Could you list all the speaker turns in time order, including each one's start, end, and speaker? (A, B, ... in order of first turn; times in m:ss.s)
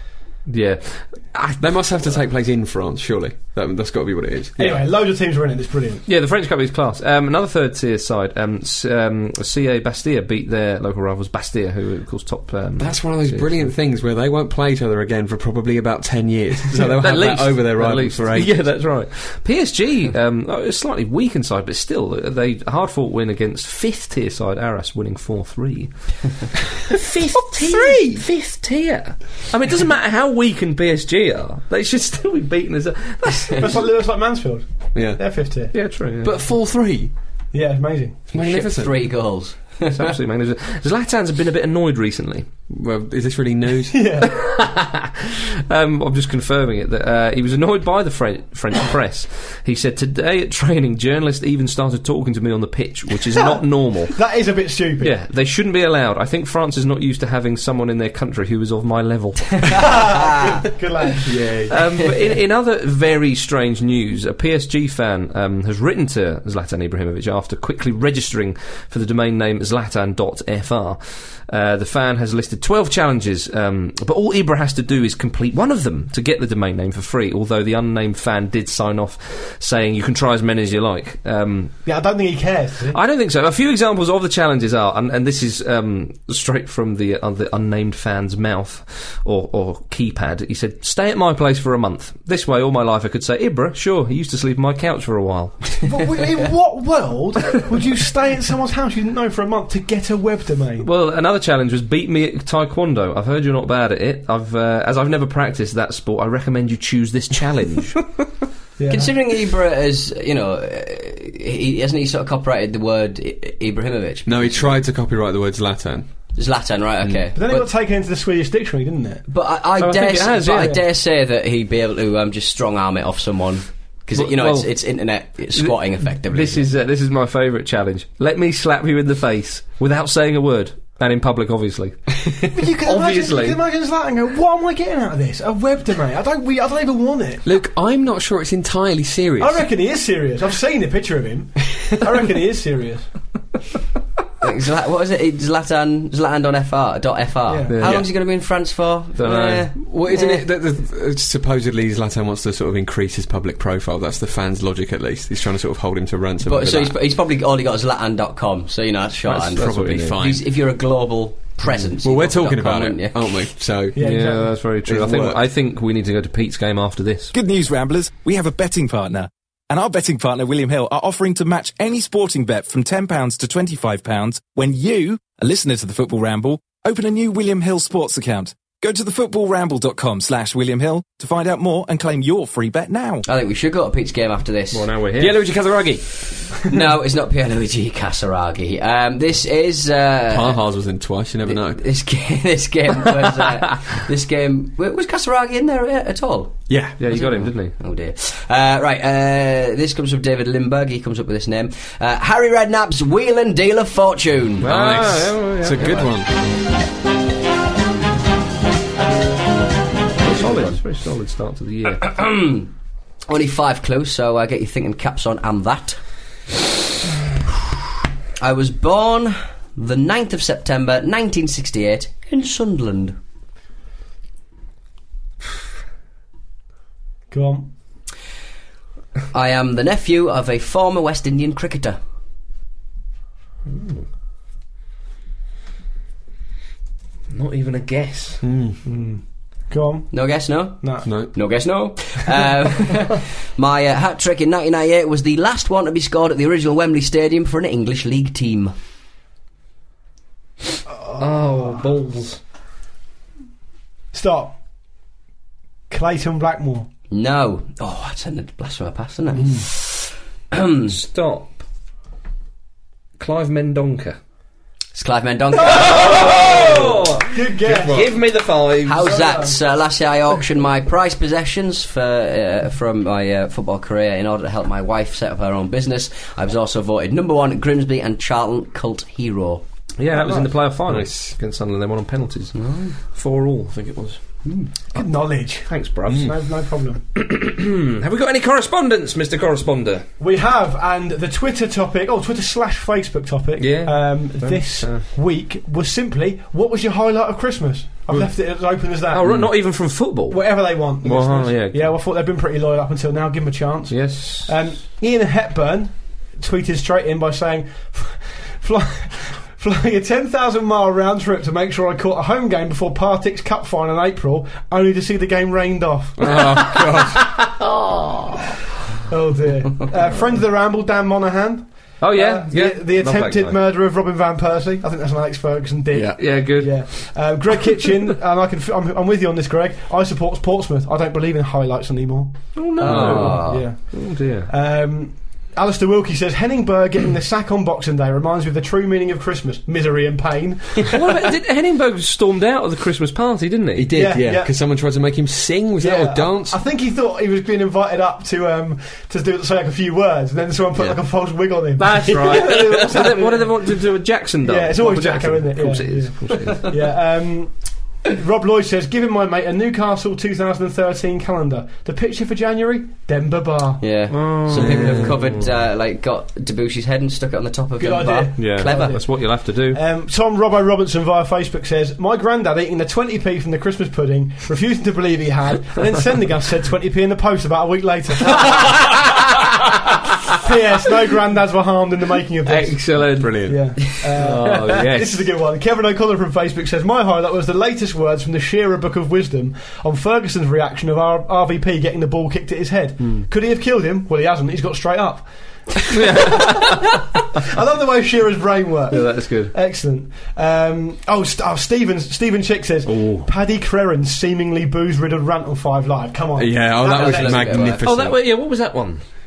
0:00.5-0:01.7 A
0:01.6-0:04.8 B
0:04.6-0:06.0 C
0:06.1-0:13.7 A
0:12.8-0:18.7 B
0:16.8-0:26.3 A
0:26.9-0:33.8 A
0:33.6-0:35.7 C
0:34.9-0:35.2 B
0:35.7-0:36.4 A
0:36.2-0:37.1 B
0:37.5-0:38.2 C
0:38.3-0:39.1 B
0:38.3-0:40.1 D
0:39.9-0:42.5 A
0:42.7-0:44.1 B
0:43.9-0:44.3 C
0:44.2-0:54.2 A
0:54.1-0:55.1 C
0:55.0-1:00.0 A
0:59.7-1:01.3 C
1:01.2-1:02.0 B
1:01.7-1:21.8 A
1:21.8-1:23.0 C
1:22.9-1:35.9 A
1:35.8-1:40.9 C
1:40.8-1:48.1 A
1:48.8-1:49.1 C
1:48.9-1:54.8 D
1:54.3-1:56.1 B
1:56.4-1:57.7 D
1:57.3-1:59.2 C
1:59.3-2:06.6 D
1:59.8-2:00.8 A
2:04.1-2:13.6 A
2:12.5-2:17.4 C
2:17.4-2:19.7 B
2:19.4-2:23.1 C
2:24.4-2:30.4 D
2:27.5-2:27.7 C
2:27.7-2:28.0 A
2:27.8-2:28.1 B
2:29.2-2:29.7 A
2:29.8-2:37.0 B
2:36.4-2:43.3 D
2:39.3-2:40.2 A
2:39.4-2:40.4 B
2:41.7-2:45.4 B
2:44.0-2:44.6 C
2:44.0-2:47.3 A
2:47.3-3:03.2 E
3:03.2-3:04.9 D
3:04.7-3:05.4 A
3:05.2-3:06.3 B
3:06.6-3:10.6 D
3:10.3-3:11.8 B
3:11.5-3:24.7 D
3:16.7-3:17.0 B
3:17.0-3:17.7 A
3:24.6-3:26.1 A
3:24.6-3:26.3 B
3:30.2-3:32.2 A
3:30.2-3:30.8 D
3:32.0-3:32.7 D
3:33.3-3:36.0 D
3:38.4-3:43.2 D
3:47.3-3:47.7 C
3:49.3-3:52.0 D
3:53.8-3:54.0 A
3:57.3-3:58.4 A
3:58.4-3:58.8 B
3:58.8-4:01.1 C
4:00.1-4:08.7 D
4:01.0-4:01.3 B
4:11.0-4:11.8 C
4:11.2-4:12.4 A
4:14.1-4:14.6 C
4:15.9-4:16.9 C
4:17.1-4:21.0 D
4:20.9-4:21.6 A
4:23.2-4:24.2 A
4:25.0-4:26.8 D
4:25.6-4:29.2 A
4:27.3-4:28.1 C
4:27.6-4:28.1 B
4:28.8-4:39.6 D
4:29.0-4:29.6 C
4:40.0-4:42.6 A
4:40.1-4:40.5 C
4:40.9-4:41.4 B
4:42.6-4:43.0 D
4:43.1-4:44.2 A
4:44.9-4:47.0 C
4:45.6-4:46.4 A
4:46.1-4:46.3 B
4:47.2-4:50.0 A
4:50.2-4:59.7 C
4:53.6-4:55.1 A
4:58.1-5:01.9 A
5:00.3-5:16.7 C
5:03.9-5:04.6 A
5:16.2-5:17.4 B
5:17.1-5:18.4 A
5:19.1-5:41.0 C
5:22.0-5:23.6 A
5:25.9-5:26.2 B
5:26.2-5:27.2 A
5:32.6-5:34.5 A
5:32.8-5:33.7 D
5:32.8-5:33.4 B
5:40.9-5:43.9 A
5:43.7-5:46.6 B
5:43.9-5:44.5 C
5:45.8-5:53.6 C
5:51.8-5:56.7 A
5:54.4-6:03.8 C
6:03.8-6:09.0 D
6:04.1-6:05.5 A
6:04.6-6:05.1 B
6:07.8-6:19.0 C
6:08.4-6:09.8 A
6:18.3-6:19.4 A
6:20.4-6:36.6 C
6:22.4-6:25.2 A
6:23.2-6:23.8 B
6:33.0-6:33.3 A
6:35.9-6:37.0 A
6:37.4-6:47.7 C
6:38.9-6:39.6 A
6:42.8-6:43.3 A
6:46.4-6:48.2 B
6:46.8-6:47.9 D
6:47.8-6:49.0 A